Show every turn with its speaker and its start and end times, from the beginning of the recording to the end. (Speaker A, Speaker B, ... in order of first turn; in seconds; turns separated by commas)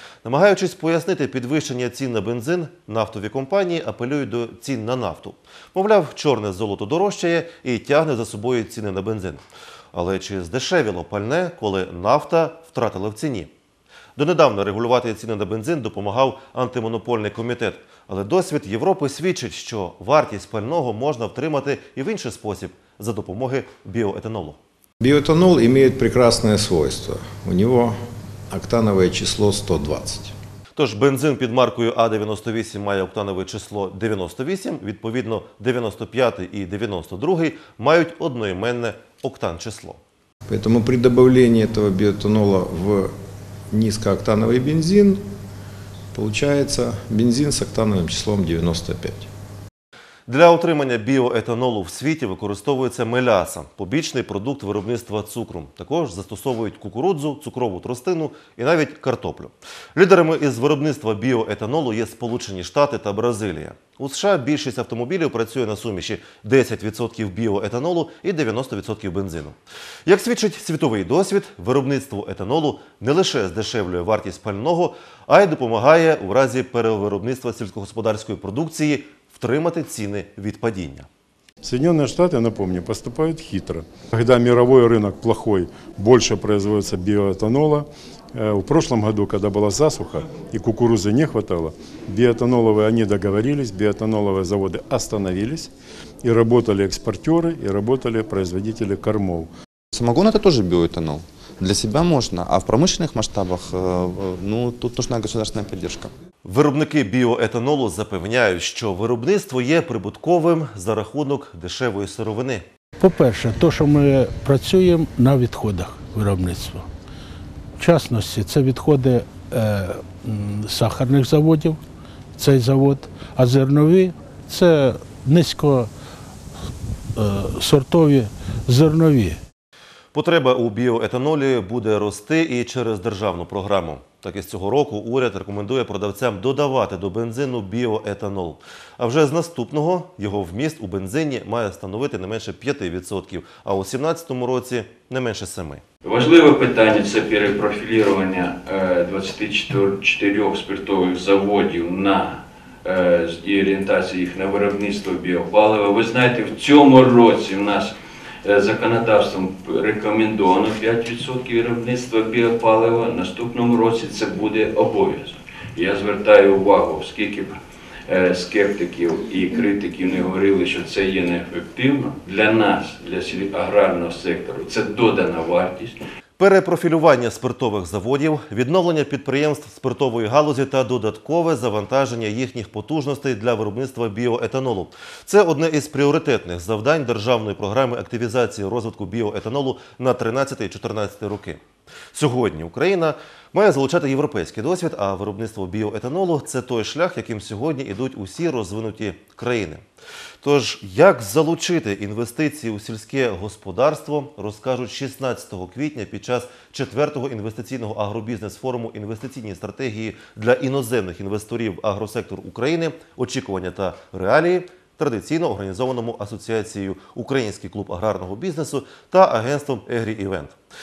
Speaker A: 0.2-13.5, Speaker A: 14.2-24.6, Speaker B: 25.0-28.0, Speaker B: 28.5-30.3, Speaker A: 30.8-40.0, Speaker B: 40.5-43.1, Speaker B: 43.7-45.2, Speaker B: 46.1-49.3, Speaker A: 50.3-81.1, Speaker C: 81.6-95.7, Speaker C: 96.2-99.5, Speaker D: 99.9-106.1, Speaker A: 106.5-112.6, Speaker E: 113.0-116.9, Speaker E: 117.8-121.8, Speaker E: 122.4-125.9, Speaker E: 127.2-129.4, Speaker A: 130.1-145.8, Speaker F: 146.0-157.9, Speaker F: 158.4-167.6, Speaker F: 168.1-176.0, Speaker A: 176.4-191.6, Speaker A: 192.1-199.8, Speaker A: 200.4-220.6